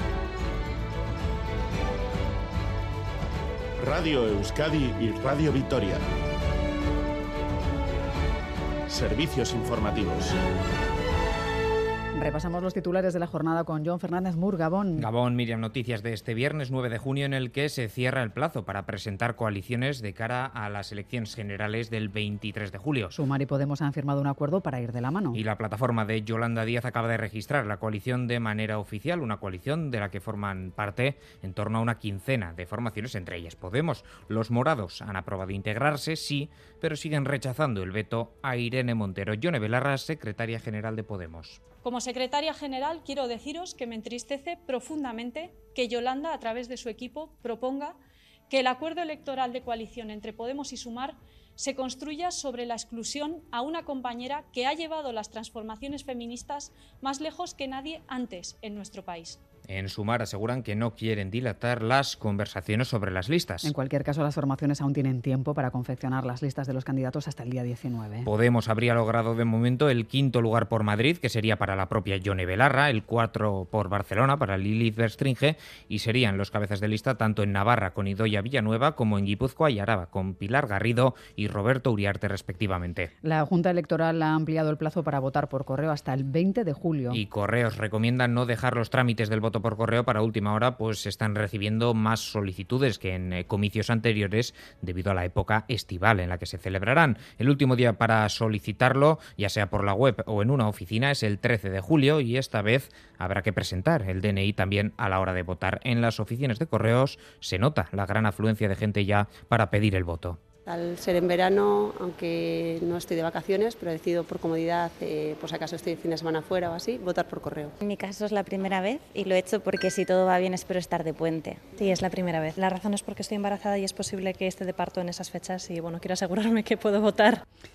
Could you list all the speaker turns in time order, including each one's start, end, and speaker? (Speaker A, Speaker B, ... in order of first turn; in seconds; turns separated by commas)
Speaker A: 3.8-6.0, Speaker A: 8.9-10.4, Speaker B: 12.2-15.1, Speaker C: 15.0-23.1, Speaker B: 23.1-25.4, Speaker C: 25.3-41.6, Speaker D: 41.8-48.0, Speaker D: 48.5-59.4, Speaker C: 59.7-63.7, Speaker B: 63.6-68.3, Speaker C: 68.2-83.1, Speaker B: 83.2-87.2, Speaker C: 87.1-110.4, Speaker E: 110.7-117.8, Speaker F: 117.8-121.7, Speaker G: 121.8-127.4